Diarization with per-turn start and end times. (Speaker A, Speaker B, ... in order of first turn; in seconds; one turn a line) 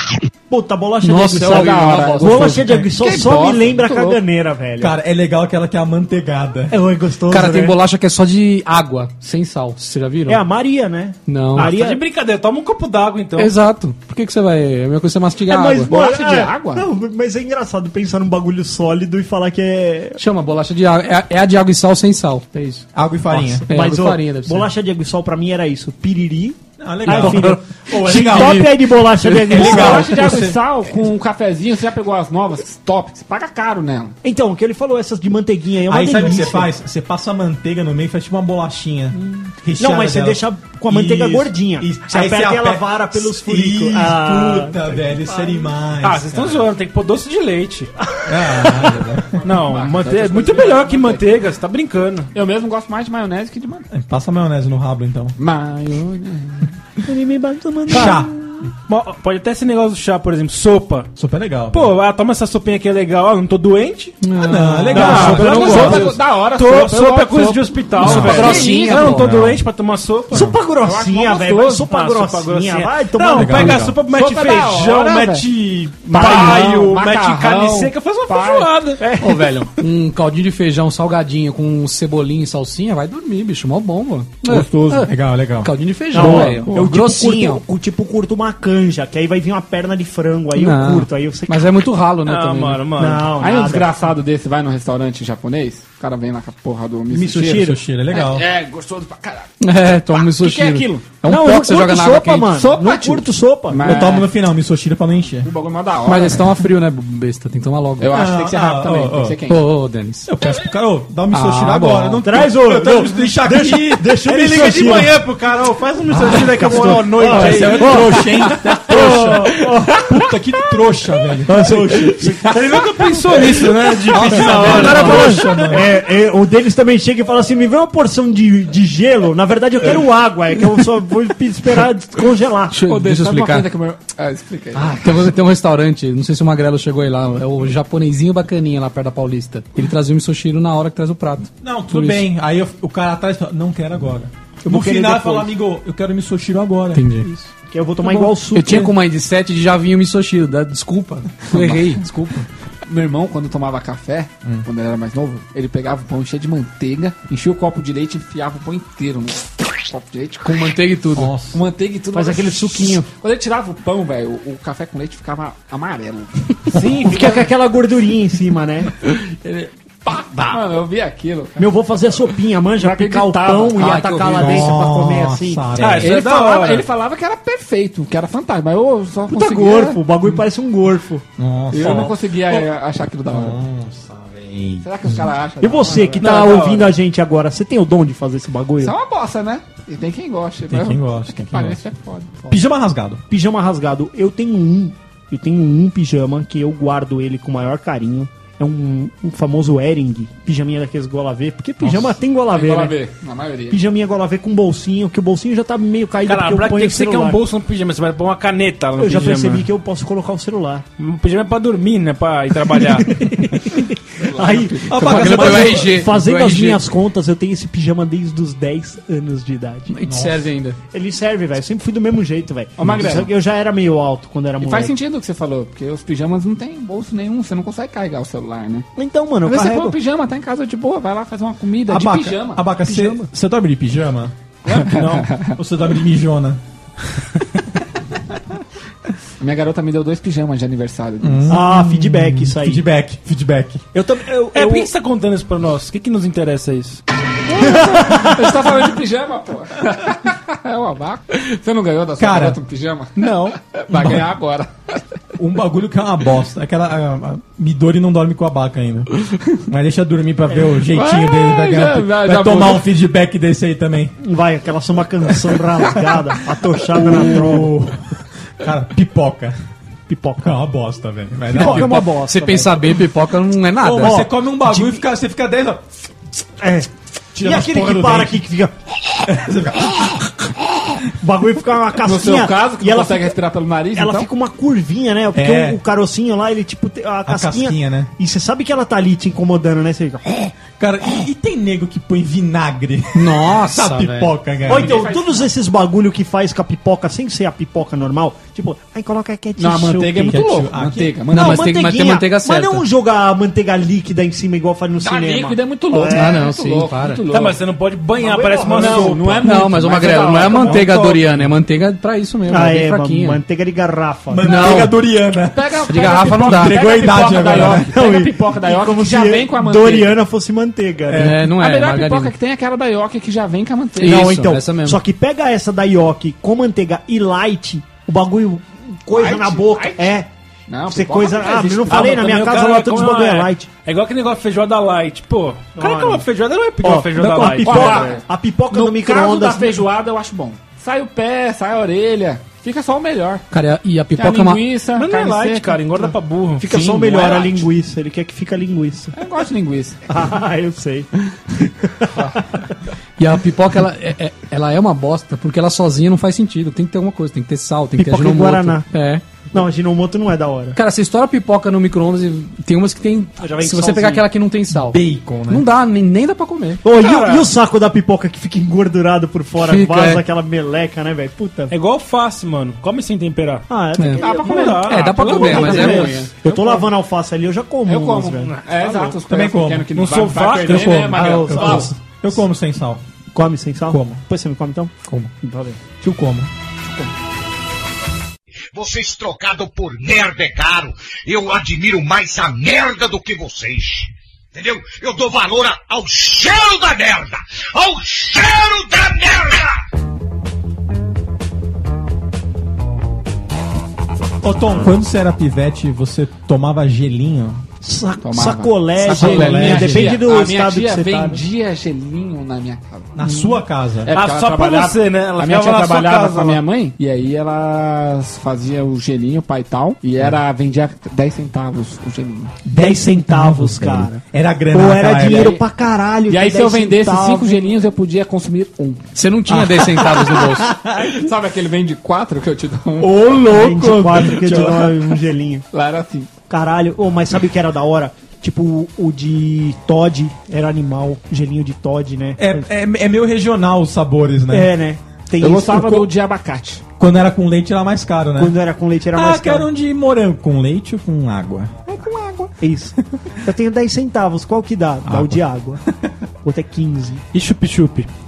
Speaker A: 0.5-5.0
Speaker B: 1.0-2.7
Speaker C: 1.4-4.2
Speaker D: 4.8-6.8
Speaker A: 6.7-7.8
Speaker B: 7.3-10.4
Speaker A: 10.3-12.0
Speaker B: 11.3-11.7
Speaker E: 11.6-13.5
Speaker B: 13.4-15.9
Speaker A: 15.5-20.2
Speaker C: 15.9-16.9
Speaker B: 20.2-22.9
Speaker D: 22.9-23.7
Speaker A: 23.4-30.2
Speaker B: 23.7-24.7
Speaker D: 26.8-30.6
Speaker B: 27.1-27.5
Speaker B: 28.2-28.7
Speaker C: 29.5-34.2
Speaker A: 34.2-36.7
Speaker D: 35.9-46.7
Speaker A: 39.2-45.7
Speaker E: 46.0-47.9
Speaker A: 48.1-48.9
Speaker D: 48.3-49.4
Speaker C: 49.4-51.4
Speaker E: 49.5-52.3
Speaker C: 52.3-53.9
Speaker D: 53.9-55.4
Speaker C: 55.4-56.7
Speaker A: 57.0-58.6
Speaker D: 57.9-58.3
Speaker E: 58.9-61.1
Speaker D: 61.2-61.9
Speaker E: 61.7-64.2
Speaker B: 64.2-65.8
Speaker D: 64.4-66.1
Speaker E: 64.9-70.5
Speaker C: 65.0-69.1
Speaker D: 68.0-68.5
Speaker B: 68.0-69.3
Speaker D: 69.1-69.6
Speaker D: 70.3-70.6
Speaker A: 70.3-73.8
Speaker C: 70.8-71.7
Speaker E: 71.4-79.6
Speaker D: 73.3-74.0
Speaker C: 74.1-75.5
Speaker C: 76.1-78.8
Speaker A: 76.1-76.9
Speaker B: 79.2-87.6
Speaker C: 84.5-85.1
Speaker D: 85.0-85.7
Speaker A: 86.1-91.8
Speaker C: 86.1-86.9
Speaker B: 90.5-92.9
Speaker E: 92.2-93.3
Speaker A: 93.0-93.9
Speaker C: 93.4-99.5
Speaker D: 97.1-98.5
Speaker B: 99.6-102.7
Speaker C: 100.1-101.0
Speaker A: 101.2-104.0
Speaker C: 102.5-104.3
Speaker D: 103.8-105.5
Speaker C: 105.4-106.4
Speaker B: 106.1-108.2
Speaker C: 108.0-109.6
Speaker D: 108.1-109.4
Speaker B: 109.5-110.3
Speaker D: 110.3-122.3
Speaker B: 111.3-112.2
Speaker A: 112.2-115.2
Speaker E: 114.5-115.0
Speaker A: 116.1-120.3
Speaker E: 116.2-118.3
Speaker A: 121.5-122.6
Speaker E: 122.3-125.6
Speaker D: 124.0-126.0
Speaker A: 124.2-132.8
Speaker B: 124.8-125.4
Speaker B: 132.7-133.7
Speaker C: 132.8-135.0
Speaker B: 134.8-142.2
Speaker D: 141.6-147.3
Speaker A: 144.6-145.5
Speaker B: 146.9-147.3
Speaker A: 147.7-148.9
Speaker B: 148.0-152.5
Speaker C: 151.5-151.8
Speaker C: 152.8-160.7
Speaker B: 160.4-161.3
Speaker D: 161.2-161.6
Speaker C: 161.5-167.1
Speaker A: 162.1-163.1
Speaker E: 166.7-167.4
Speaker A: 166.8-168.9
Speaker C: 169.1-171.8
Speaker A: 171.6-175.8
Speaker C: 172.8-174.7
Speaker B: 173.8-174.5
Speaker D: 174.3-176.1
Speaker E: 175.8-176.9
Speaker C: 175.8-180.0
Speaker A: 179.3-181.2
Speaker D: 181.4-182.7
Speaker C: 181.7-183.6
Speaker A: 181.8-182.1
Speaker D: 183.3-185.2
Speaker C: 184.8-186.3
Speaker A: 185.6-188.9
Speaker E: 186.2-186.9
Speaker C: 188.8-192.6
Speaker D: 190.7-191.8
Speaker D: 192.5-193.2
Speaker A: 193.3-203.0
Speaker C: 201.9-203.8
Speaker A: 203.7-207.4
Speaker E: 206.2-209.7
Speaker A: 209.0-210.9
Speaker E: 211.0-213.1
Speaker A: 212.8-219.9
Speaker C: 214.2-215.4
Speaker D: 214.9-216.1
Speaker B: 215.0-216.9
Speaker B: 219.9-220.8
Speaker D: 220.1-220.5
Speaker A: 220.9-224.9
Speaker C: 222.8-223.3
Speaker C: 224.6-228.9
Speaker A: 229.0-230.0
Speaker C: 229.5-232.6
Speaker D: 231.9-236.6
Speaker A: 232.8-233.3
Speaker C: 234.7-235.6
Speaker C: 239.4-241.6
Speaker D: 241.2-243.8
Speaker A: 241.5-242.9
Speaker A: 243.9-244.9
Speaker E: 244.5-247.0
Speaker C: 247.5-255.0
Speaker A: 247.6-248.4
Speaker D: 252.2-252.6
Speaker D: 253.9-254.3
Speaker D: 255.4-264.2
Speaker C: 260.9-262.9
Speaker A: 264.2-267.7
Speaker D: 266.9-268.0
Speaker D: 268.6-269.6
Speaker A: 270.1-270.6
Speaker D: 270.4-272.1
Speaker A: 271.5-272.9
Speaker B: 271.6-274.2
Speaker D: 273.8-275.8
Speaker A: 274.0-275.0
Speaker A: 276.6-276.9
Speaker D: 277.3-278.4
Speaker A: 277.4-278.7
Speaker D: 279.2-280.4
Speaker A: 281.2-283.4
Speaker C: 282.0-284.3
Speaker A: 283.9-290.6
Speaker D: 285.3-285.8
Speaker D: 287.3-288.1
Speaker D: 290.8-295.0
Speaker B: 293.1-294.3
Speaker C: 294.7-295.5
Speaker A: 294.7-300.5
Speaker C: 299.6-301.7
Speaker D: 300.1-301.1
Speaker A: 301.3-306.4
Speaker B: 301.3-302.9
Speaker C: 305.0-307.6
Speaker B: 306.0-307.2
Speaker E: 307.3-309.4
Speaker A: 308.2-309.2
Speaker C: 308.6-310.8
Speaker B: 309.4-313.4
Speaker D: 310.6-311.5
Speaker A: 312.5-314.6
Speaker D: 314.3-315.8
Speaker B: 314.4-314.9
Speaker C: 315.5-320.2
Speaker B: 315.9-316.8
Speaker D: 316.4-317.9
Speaker A: 317.6-321.3
Speaker B: 321.1-322.3
Speaker C: 321.3-324.3
Speaker A: 324.0-330.3
Speaker B: 324.0-325.0
Speaker C: 329.1-330.2
Speaker C: 330.7-332.4
Speaker A: 330.9-333.7
Speaker E: 331.9-338.2
Speaker A: 335.8-336.3
Speaker A: 336.8-339.9
Speaker D: 337.2-338.1
Speaker C: 337.6-343.4
Speaker B: 343.5-344.6
Speaker C: 344.2-345.9
Speaker E: 344.9-347.4
Speaker A: 346.6-349.1
Speaker C: 346.7-347.6
Speaker C: 349.1-350.0
Speaker A: 350.1-352.7
Speaker B: 353.2-359.2
Speaker A: 358.0-358.9
Speaker A: 359.5-360.8
Speaker B: 360.8-366.8
Speaker A: 363.4-364.3
Speaker D: 364.7-365.6
Speaker A: 366.8-371.7
Speaker E: 366.9-367.5
Speaker B: 369.6-370.2
Speaker E: 371.7-373.7
Speaker A: 373.7-378.5
Speaker B: 374.0-376.3
Speaker C: 374.2-376.2
Speaker E: 374.2-376.8
Speaker C: 377.9-381.9
Speaker E: 378.7-379.2
Speaker D: 379.3-379.9
Speaker E: 379.9-381.8
Speaker D: 380.6-383.0
Speaker A: 381.3-381.9
Speaker A: 383.3-385.8
Speaker D: 383.9-384.2
Speaker D: 386.0-386.5
Speaker F: 388.7-399.8
Speaker D: 404.4-407.6
Speaker A: 407.8-411.4
Speaker C: 408.2-413.3
Speaker D: 409.0-410.2
Speaker D: 413.1-414.1
Speaker C: 414.0-422.6
Speaker E: 414.1-416.6
Speaker D: 422.7-425.6
Speaker A: 422.7-427.7
Speaker C: 425.2-425.6
Speaker C: 426.3-429.0
Speaker B: 429.1-430.7
Speaker D: 429.5-431.3
Speaker C: 431.0-433.4
Speaker D: 433.0-435.1
Speaker A: 433.5-435.7
Speaker C: 435.7-436.3
Speaker A: 436.5-442.6
Speaker D: 442.4-444.7
Speaker A: 444.5-446.1
Speaker C: 445.4-446.8
Speaker D: 447.0-448.6
Speaker A: 448.4-449.7
Speaker D: 449.1-451.9
Speaker A: 451.9-455.8
Speaker D: 455.1-455.4
Speaker A: 456.4-457.2
Speaker E: 457.3-458.1